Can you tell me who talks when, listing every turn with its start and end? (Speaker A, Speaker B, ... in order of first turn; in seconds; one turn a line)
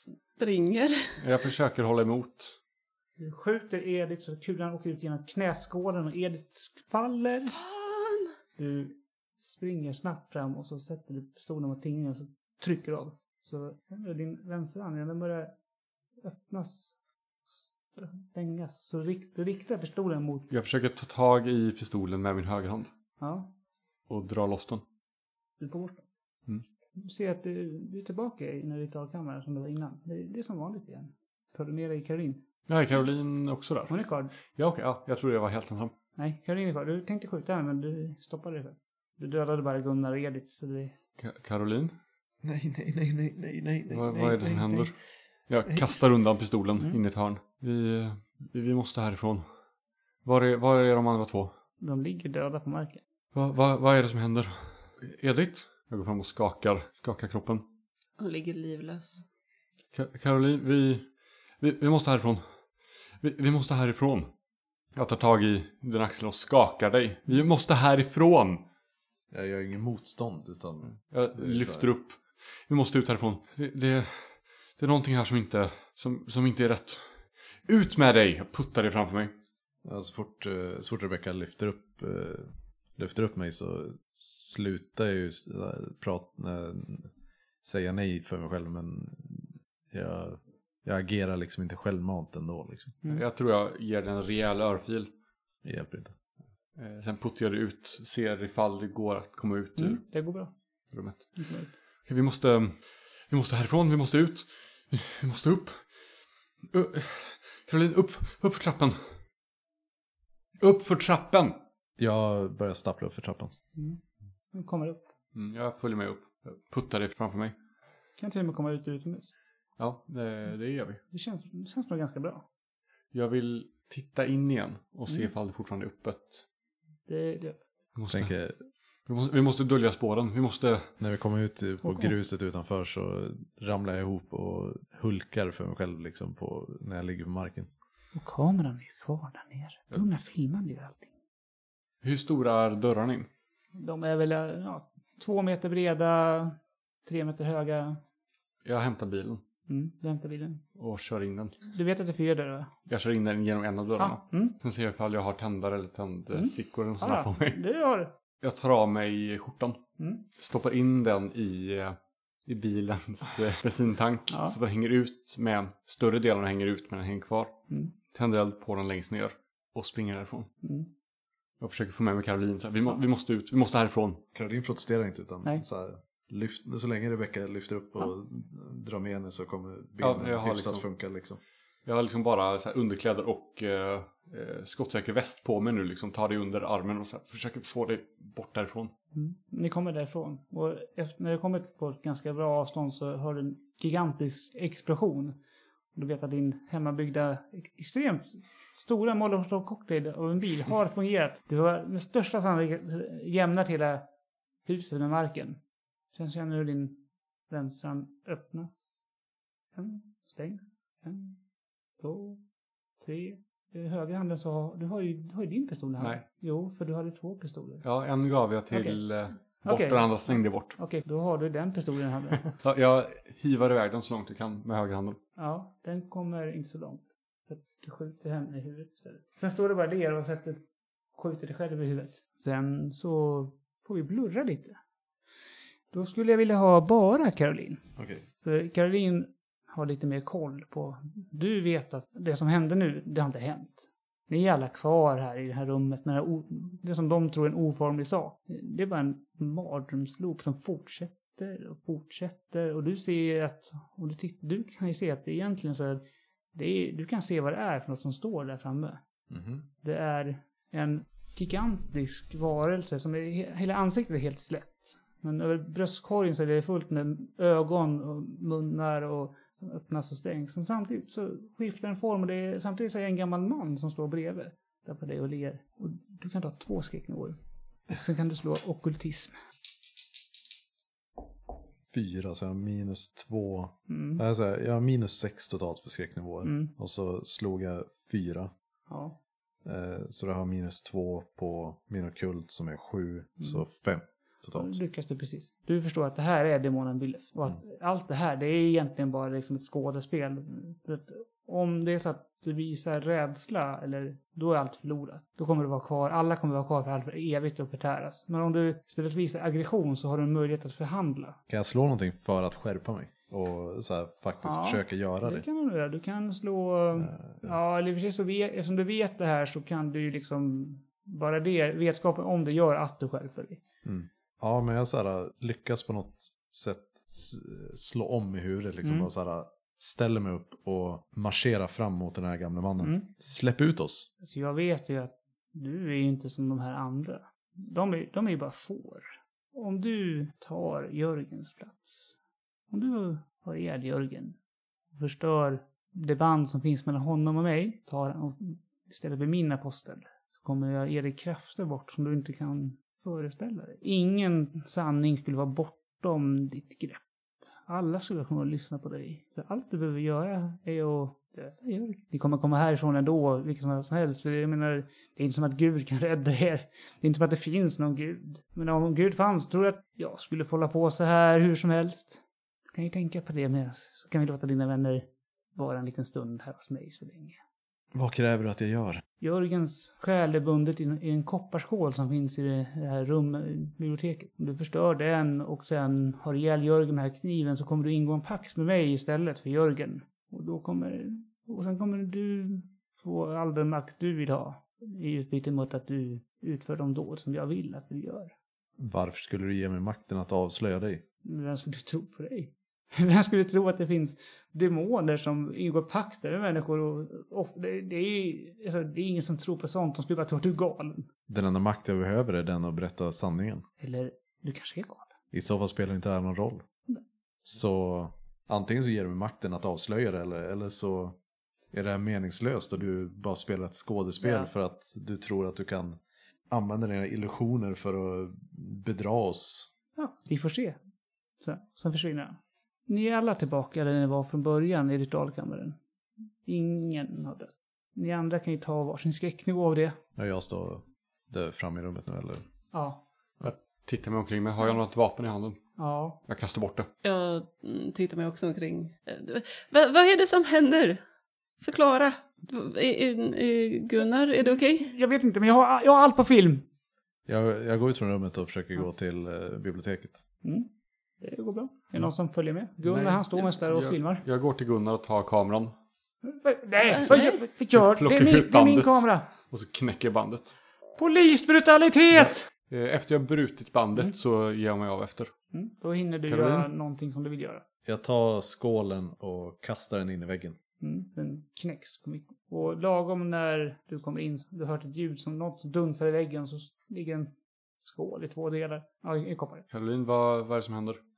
Speaker A: 0.4-1.2
Speaker B: 1.2-2.6
Speaker C: 3.2-7.6
Speaker A: 7.5-8.3
Speaker C: 8.6-15.5
Speaker C: 16.2-17.0
Speaker C: 17.5-20.5
Speaker B: 20.5-22.9
Speaker C: 23.2-23.5
Speaker B: 24.1-24.8
Speaker C: 25.6-26.0
Speaker C: 27.0-32.4
Speaker B: 32.7-35.9
Speaker C: 33.9-34.3
Speaker C: 36.2-40.9
Speaker B: 41.2-42.0
Speaker D: 42.4-44.9
Speaker B: 43.9-44.9
Speaker B: 45.5-49.5
Speaker B: 50.2-51.5
Speaker C: 51.8-53.0
Speaker B: 53.3-57.6
Speaker A: 58.2-59.2
Speaker B: 59.9-61.1
Speaker B: 61.6-62.5
Speaker B: 63.2-64.3
Speaker B: 65.0-68.7
Speaker D: 69.3-71.9
Speaker B: 71.0-79.3
Speaker D: 79.8-87.1
Speaker D: 87.6-93.0
Speaker B: 93.1-95.1
Speaker D: 95.6-96.2
Speaker B: 96.8-100.1
Speaker C: 99.8-100.5
Speaker B: 100.9-101.4
Speaker C: 101.4-101.7
Speaker B: 102.1-105.9
Speaker B: 106.6-109.1
Speaker B: 110.6-111.6
Speaker D: 112.0-113.5
Speaker C: 114.5-115.1
Speaker B: 115.3-117.5
Speaker C: 118.2-119.3
Speaker B: 119.8-121.0
Speaker C: 121.1-122.5
Speaker B: 123.1-126.5
Speaker C: 127.1-127.6
Speaker B: 128.0-128.3
Speaker D: 128.1-128.6
Speaker B: 129.1-130.9
Speaker D: 131.0-137.7
Speaker C: 131.8-132.1
Speaker C: 138.2-141.1
Speaker B: 142.0-143.3
Speaker C: 143.8-148.0
Speaker B: 148.7-149.4
Speaker C: 149.7-150.6
Speaker B: 150.8-151.6
Speaker C: 151.7-152.7
Speaker B: 152.9-157.6
Speaker C: 154.0-154.6
Speaker C: 156.3-158.1
Speaker B: 158.4-159.8
Speaker C: 160.0-160.2
Speaker B: 160.4-170.5
Speaker C: 164.3-164.6
Speaker C: 170.6-170.9
Speaker B: 171.6-174.2
Speaker D: 174.3-181.4
Speaker B: 180.0-180.8
Speaker B: 181.9-188.9
Speaker C: 189.2-195.4
Speaker C: 195.9-204.1
Speaker C: 204.7-205.6
Speaker C: 206.1-209.0
Speaker C: 209.8-211.4
Speaker C: 212.0-212.4
Speaker C: 213.0-217.8
Speaker B: 217.8-220.8
Speaker C: 218.7-219.0
Speaker C: 219.6-222.5
Speaker B: 222.5-225.2
Speaker C: 225.4-230.6
Speaker C: 231.1-234.8
Speaker C: 235.9-237.8
Speaker D: 238.0-238.2
Speaker C: 238.4-256.0
Speaker C: 256.5-259.0
Speaker D: 259.3-259.6
Speaker C: 259.8-277.4
Speaker C: 277.9-279.4
Speaker D: 281.9-288.5
Speaker C: 283.9-284.2
Speaker C: 286.4-286.7
Speaker C: 288.9-289.2
Speaker D: 289.6-294.8
Speaker C: 294.5-311.4
Speaker D: 311.5-315.5
Speaker C: 314.4-323.6
Speaker D: 317.0-317.6
Speaker D: 323.8-334.1
Speaker C: 328.8-329.1
Speaker C: 332.8-333.1
Speaker C: 334.2-342.2
Speaker C: 342.7-344.4
Speaker C: 344.9-357.0
Speaker C: 357.7-377.4
Speaker D: 377.9-379.0
Speaker C: 379.2-398.3
Speaker D: 398.8-401.0
Speaker C: 401.2-411.1
Speaker D: 411.3-413.6
Speaker C: 413.8-415.1
Speaker D: 415.3-416.6
Speaker D: 417.4-421.2
Speaker D: 421.7-426.0
Speaker C: 424.2-424.5
Speaker D: 426.5-429.7
Speaker C: 430.0-430.8
Speaker C: 431.4-435.8
Speaker C: 436.4-440.0
Speaker D: 440.2-442.4
Speaker C: 442.7-443.0
Speaker B: 443.4-445.6
Speaker C: 445.8-446.2
Speaker B: 446.3-446.9
Speaker A: 447.0-451.0
Speaker A: 451.6-454.9
Speaker C: 454.8-456.6
Speaker D: 457.3-460.2
Speaker C: 460.4-460.7
Speaker C: 461.2-464.2
Speaker B: 462.8-465.7
Speaker C: 466.2-469.3
Speaker A: 466.9-467.4
Speaker B: 467.1-470.6
Speaker C: 471.0-472.5
Speaker B: 472.1-475.3
Speaker C: 475.5-477.6
Speaker B: 476.3-476.7
Speaker D: 477.9-480.6
Speaker C: 480.8-489.7
Speaker B: 489.7-491.0